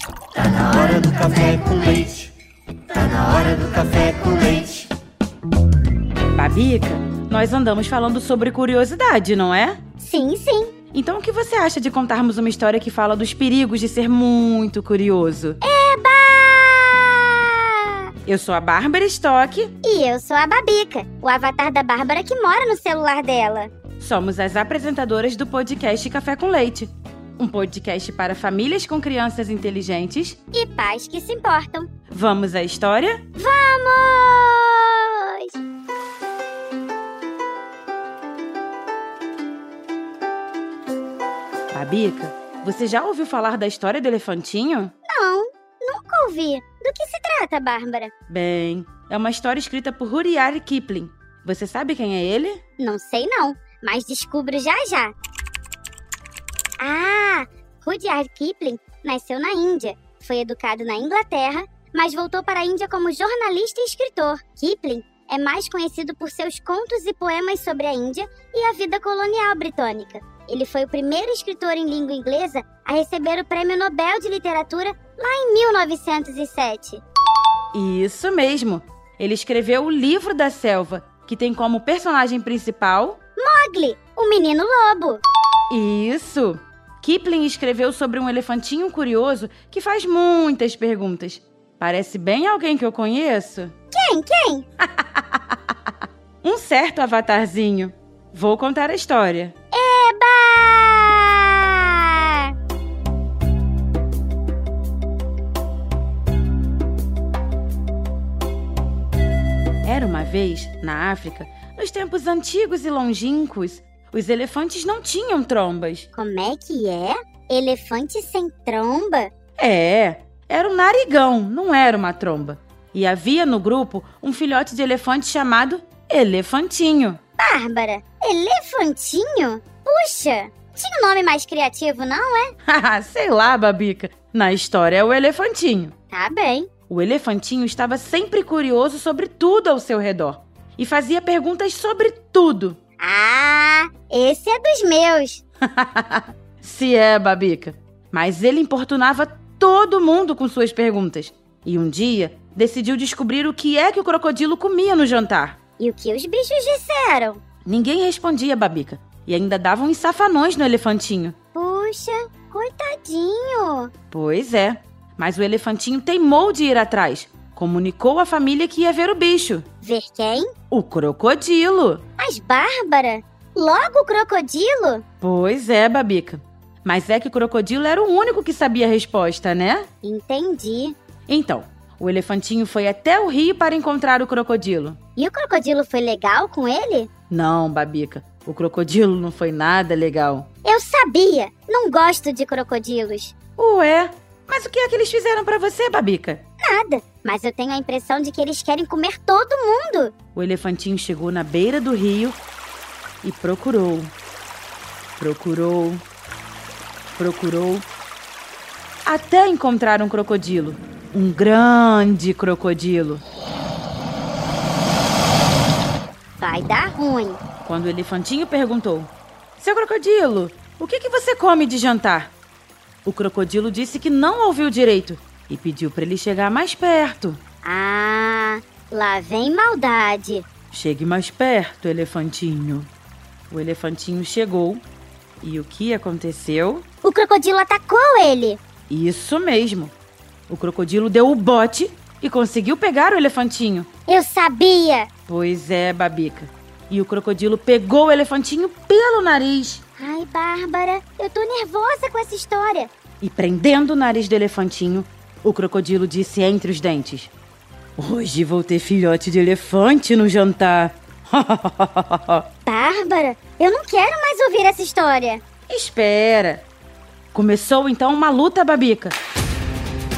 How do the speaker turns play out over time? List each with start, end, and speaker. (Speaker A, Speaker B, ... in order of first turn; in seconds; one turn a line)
Speaker A: 0.4-2.3
Speaker A: 2.9-4.9
Speaker B: 6.3-9.8
Speaker C: 10.0-10.7
Speaker B: 10.9-15.6
Speaker C: 15.6-18.1
Speaker B: 18.2-19.7
Speaker C: 19.8-23.7
Speaker B: 24.0-30.4
Speaker C: 30.5-31.9
Speaker B: 32.1-33.2
Speaker C: 33.4-35.5
Speaker B: 41.7-44.9
Speaker C: 45.1-48.1
Speaker B: 48.3-52.6
Speaker C: 52.8-55.1
Speaker C: 56.8-77.0
Speaker B: 77.7-83.2
Speaker C: 83.4-85.2
Speaker B: 85.7-93.7
Speaker C: 93.9-94.6
Speaker B: 94.8-95.7
Speaker B: 96.4-99.5
Speaker C: 99.7-102.5
Speaker B: 109.8-116.1
Speaker C: 116.1-119.3
Speaker B: 119.6-127.2
Speaker C: 127.4-132.5
Speaker B: 132.7-135.9
Speaker C: 136.1-136.7
Speaker B: 136.9-142.8
Speaker C: 143.0-145.4
Speaker B: 145.6-155.6
Speaker C: 155.8-157.4
Speaker B: 157.6-161.3
Speaker C: 161.5-163.9
Speaker B: 164.1-169.7
Speaker C: 169.8-170.5
Speaker B: 170.7-172.0
Speaker C: 172.2-175.0
Speaker B: 175.2-179.8
Speaker C: 180.0-180.9
Speaker B: 181.3-185.0
Speaker C: 185.2-187.1
Speaker B: 187.3-190.5
Speaker C: 190.6-193.3
Speaker B: 193.6-196.4
Speaker C: 196.6-200.1
Speaker B: 200.3-202.3
Speaker B: 203.2-204.1
Speaker B: 205.2-206.0
Speaker B: 207.1-207.8
Speaker B: 209.1-213.2
Speaker C: 216.4-217.4
Speaker B: 217.6-222.3
Speaker B: 223.0-227.4
Speaker C: 227.6-230.4
Speaker B: 230.7-232.9
Speaker B: 233.5-234.8
Speaker B: 235.4-236.8
Speaker C: 237.0-238.6
Speaker B: 238.9-239.9
Speaker B: 240.5-243.9
Speaker C: 244.1-245.1
Speaker B: 245.3-249.8
Speaker C: 250.0-252.9
Speaker B: 253.2-257.3
Speaker B: 258.0-262.4
Speaker C: 262.6-265.4
Speaker B: 265.7-266.6
Speaker B: 267.3-269.1